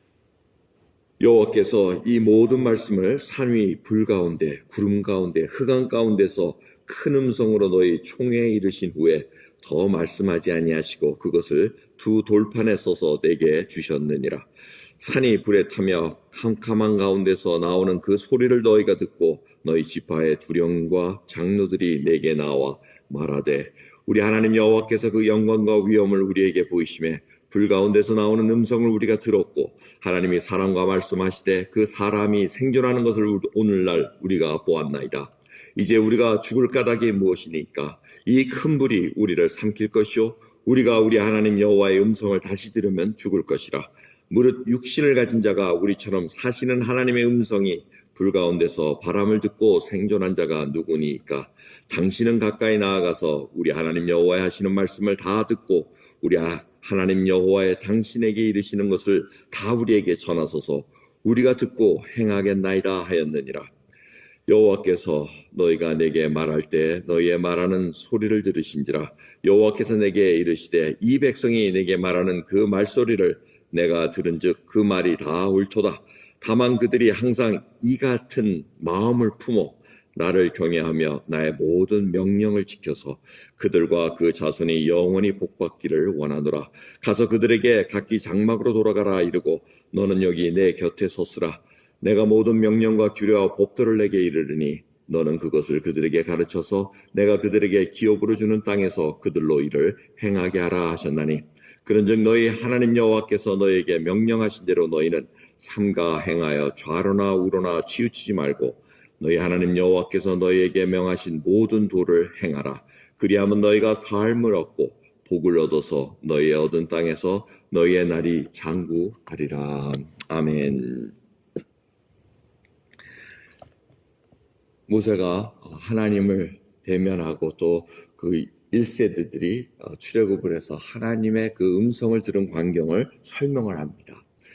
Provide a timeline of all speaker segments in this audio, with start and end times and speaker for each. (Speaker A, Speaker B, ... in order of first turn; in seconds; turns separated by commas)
Speaker A: 1.2-14.5, Speaker A: 15.0-63.7, Speaker A: 64.5-121.1, Speaker A: 124.9-134.3